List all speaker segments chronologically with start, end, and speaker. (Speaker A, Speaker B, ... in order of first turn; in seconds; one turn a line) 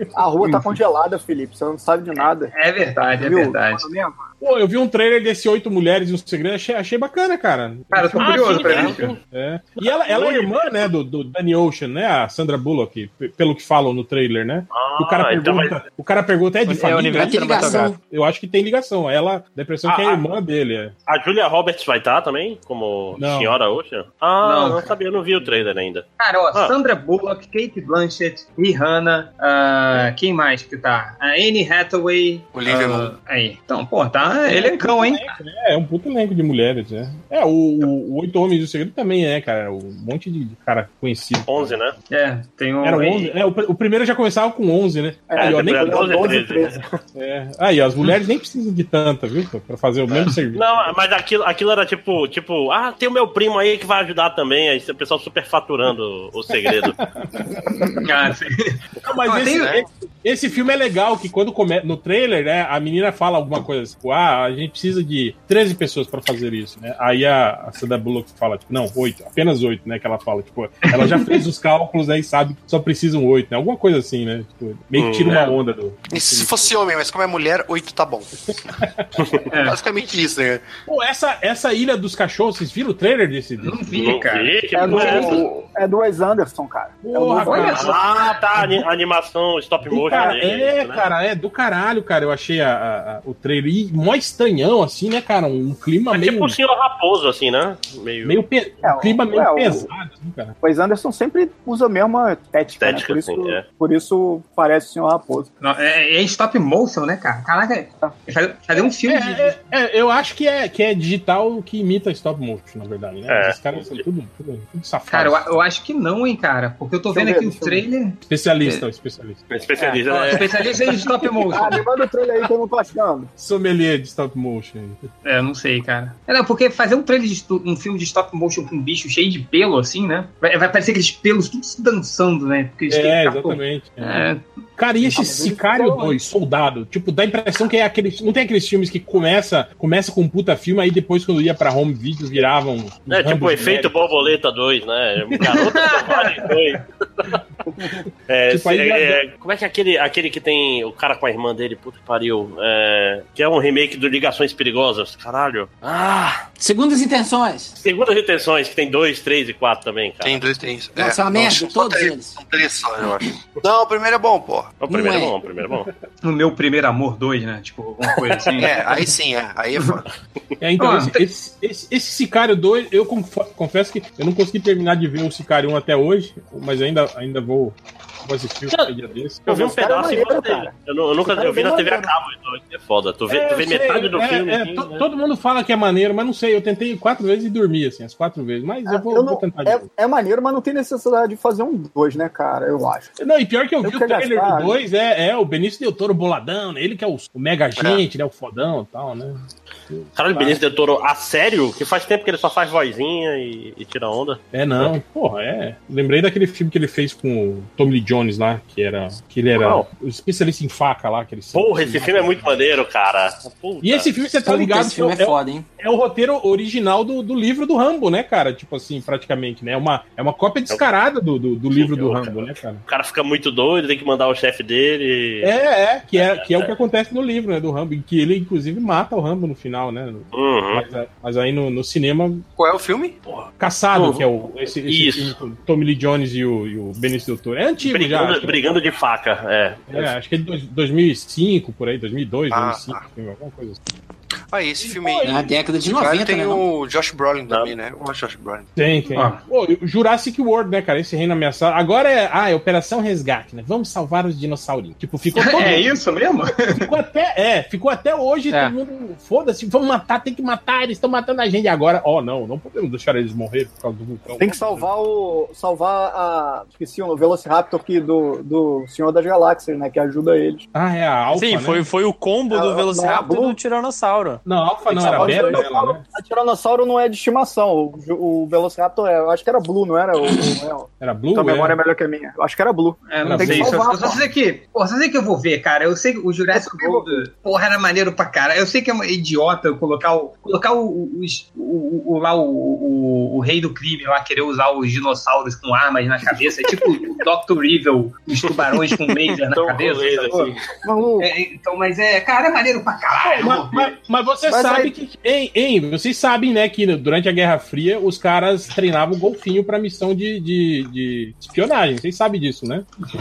Speaker A: 0.1-2.5
Speaker B: 2.5-3.8
Speaker A: 3.1-4.2
Speaker C: 4.4-20.9
Speaker B: 7.9-9.2
Speaker D: 8.1-9.2
Speaker D: 9.8-10.8
Speaker D: 14.7-15.8
Speaker E: 16.6-17.9
Speaker F: 16.9-18.0
Speaker D: 19.8-20.2
Speaker D: 21.1-26.7
Speaker C: 23.1-23.6
Speaker B: 24.4-24.9
Speaker B: 26.2-35.3
Speaker G: 32.5-33.1
Speaker C: 34.5-41.8
Speaker D: 41.5-41.9
Speaker B: 42.1-43.3
Speaker C: 42.8-46.5
Speaker A: 45.3-47.0
Speaker D: 45.4-46.8
Speaker C: 47.1-50.9
Speaker D: 50.5-57.0
Speaker C: 56.6-57.9
Speaker B: 58.0-59.8
Speaker C: 59.0-76.7
Speaker B: 70.8-71.4
Speaker D: 74.9-75.5
Speaker G: 76.1-78.3
Speaker C: 78.5-79.4
Speaker B: 79.5-79.8
Speaker G: 79.6-80.7
Speaker C: 80.8-83.8
Speaker B: 83.6-85.5
Speaker D: 83.9-85.4
Speaker A: 84.7-87.9
Speaker C: 87.0-88.0
Speaker B: 87.4-88.2
Speaker D: 87.7-91.0
Speaker C: 88.5-88.8
Speaker C: 89.9-96.6
Speaker A: 90.1-90.4
Speaker D: 96.1-98.4
Speaker C: 98.2-100.5
Speaker A: 98.8-99.9
Speaker A: 100.6-105.5
Speaker D: 102.8-103.6
Speaker B: 105.6-109.6
Speaker C: 109.0-115.6
Speaker D: 113.3-114.0
Speaker B: 115.1-118.8
Speaker A: 117.1-117.8
Speaker C: 118.2-119.4
Speaker D: 119.5-120.8
Speaker B: 120.1-121.8
Speaker A: 121.4-123.3
Speaker C: 123.4-125.0
Speaker B: 125.2-134.4
Speaker C: 132.9-134.2
Speaker C: 134.8-144.3
Speaker A: 135.1-136.2
Speaker D: 143.1-147.4
Speaker B: 145.5-146.8
Speaker D: 148.3-156.4
Speaker C: 148.5-149.2
Speaker F: 156.6-157.7
Speaker D: 157.8-160.4
Speaker G: 160.2-164.7
Speaker F: 160.9-162.4
Speaker D: 164.8-165.9
Speaker F: 164.9-165.3
Speaker B: 166.2-168.9
Speaker G: 168.5-170.1
Speaker C: 170.6-179.6
Speaker B: 170.8-171.2
Speaker A: 179.5-180.7
Speaker D: 179.5-185.0
Speaker A: 181.2-182.1
Speaker C: 183.3-189.8
Speaker A: 188.9-193.1
Speaker C: 193.2-200.6
Speaker A: 193.8-194.8
Speaker G: 197.8-198.0
Speaker D: 200.2-204.9
Speaker C: 204.5-212.6
Speaker D: 209.6-209.8
Speaker D: 211.5-214.2
Speaker C: 213.8-222.8
Speaker F: 214.4-215.6
Speaker D: 221.7-225.5
Speaker C: 225.4-232.4
Speaker D: 226.1-226.7
Speaker D: 230.3-230.8
Speaker G: 232.6-233.2
Speaker D: 233.3-234.2
Speaker C: 233.6-238.6
Speaker D: 234.8-235.3
Speaker D: 237.8-240.1
Speaker C: 239.9-243.8
Speaker G: 242.5-243.0
Speaker G: 244.5-248.7
Speaker A: 244.8-245.5
Speaker F: 245.2-246.6
Speaker C: 248.8-255.9
Speaker B: 249.1-249.4
Speaker B: 255.3-256.9
Speaker C: 256.8-264.5
Speaker G: 264.3-264.9
Speaker A: 264.4-270.6
Speaker C: 270.7-271.9
Speaker E: 271.3-274.4
Speaker A: 272.5-273.6
Speaker C: 274.4-276.0
Speaker A: 274.9-284.2
Speaker E: 275.0-275.6
Speaker C: 281.0-281.8
Speaker B: 283.1-300.6
Speaker C: 283.2-283.9
Speaker A: 286.5-287.2
Speaker D: 299.5-300.6
Speaker A: 300.8-301.3
Speaker B: 301.2-303.9
Speaker C: 303.2-312.9
Speaker A: 304.5-304.9